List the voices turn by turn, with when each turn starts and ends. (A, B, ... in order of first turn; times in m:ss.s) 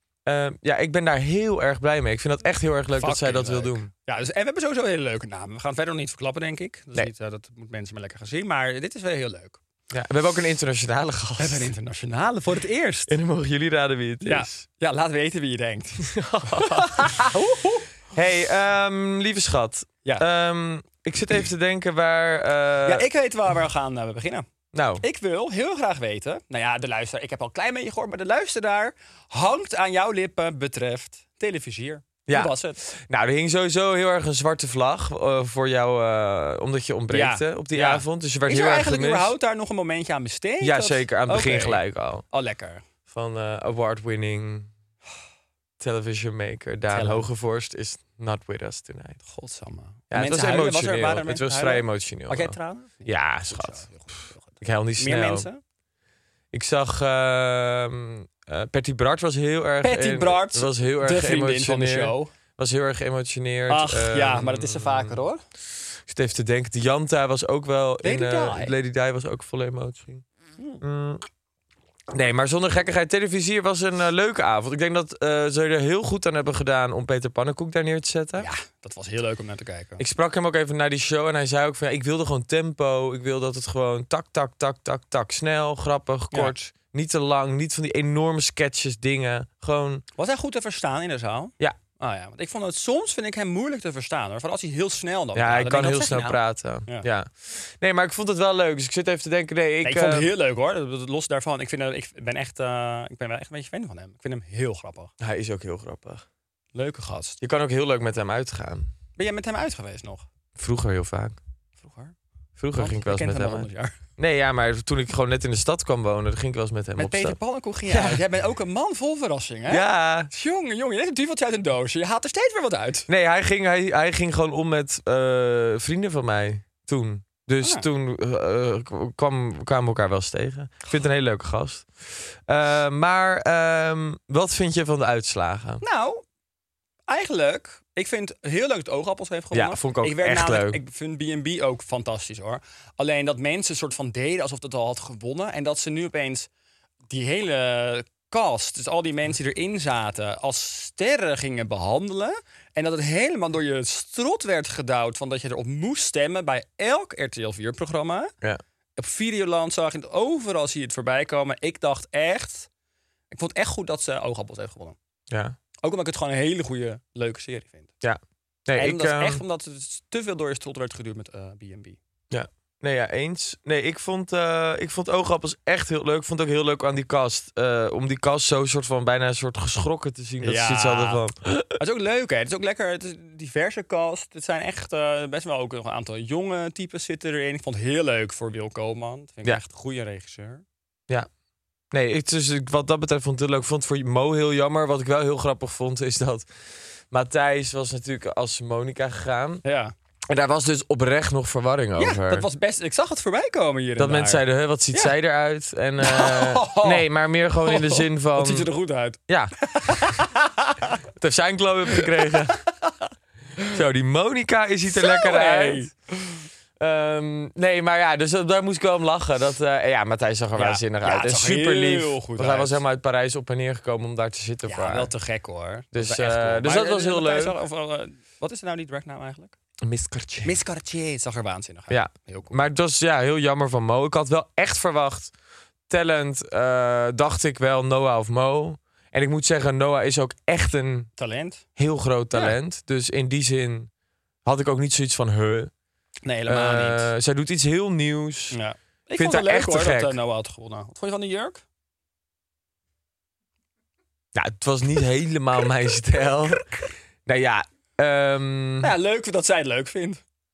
0:00.2-0:03.9 A
0:03.0-0:09.6 B
0:09.9-0:11.7 A
0:11.4-0:13.1 B
0:13.1-0:14.6 A
0:14.2-0:17.9 B
0:16.0-0:17.4 A
0:18.1-0:23.0 A
0:22.8-0:24.4 B
0:24.7-0:25.0 A
0:25.0-0:32.8 B
0:32.3-0:39.3 A
0:37.1-0:42.8 B
0:40.6-0:42.2 A
0:43.1-0:44.7 A
0:45.8-0:49.2 A
0:46.9-0:47.3 B
0:49.2-0:55.6 B
0:50.1-0:55.5 A
0:56.5-1:05.2 A
0:59.8-1:02.3 B
1:03.7-1:05.4 B
1:06.1-1:10.2 A
1:08.0-1:08.7 B
1:10.8-1:11.2 A
1:12.1-1:18.5 A
1:18.4-1:20.0 B
1:20.0-1:30.0 A
1:30.2-1:37.1 B
1:35.3-1:40.3 A
1:39.8-1:45.1 B
1:45.2-1:46.2 A
1:46.7-1:47.4 B
1:47.4-1:48.9 A
1:49.2-1:50.2 B
1:50.6-1:51.4 A
1:51.8-1:52.1 B
1:52.6-1:53.7 A
1:52.7-1:54.0 B
1:54.2-1:58.2 A
1:57.0-2:03.1 B
1:59.7-2:00.3 A
2:03.1-2:15.8 A
2:15.8-2:16.2 B
2:17.1-2:26.5 B
2:19.5-2:20.8 A
2:27.1-2:38.3 B
2:39.0-2:42.7 B
2:43.3-2:45.0 B
2:45.3-2:45.6 A
2:45.8-2:47.9 B
2:48.0-2:49.4 A
2:48.7-2:52.0 B
2:52.3-3:01.8 A
3:00.4-3:01.2 B
3:01.8-3:10.6 B
3:11.9-3:19.6 A
3:19.6-3:19.9 B
3:20.3-3:22.4 A
3:22.0-3:25.1 B
3:24.0-3:28.7 A
3:26.0-3:27.1 B
3:27.6-3:31.0 B
3:29.3-3:30.2 A
3:31.2-3:32.6 A
3:31.9-3:32.9 B
3:33.7-3:35.9 A
3:34.9-3:36.3 B
3:36.8-3:45.1 A
3:40.6-3:42.8 B
3:44.7-3:49.6 B
3:45.9-3:47.6 A
3:49.8-3:50.6 A
3:50.4-3:52.5 B
3:51.9-3:55.3 A
3:55.9-4:01.1 A
4:01.2-4:01.6 B
4:01.8-4:03.9 A
4:04.4-4:05.7 A
4:06.2-4:07.1 B
4:06.5-4:08.6 A
4:08.5-4:11.6 B
4:09.2-4:10.2 A
4:14.3-4:18.9 A
4:18.8-4:20.2 B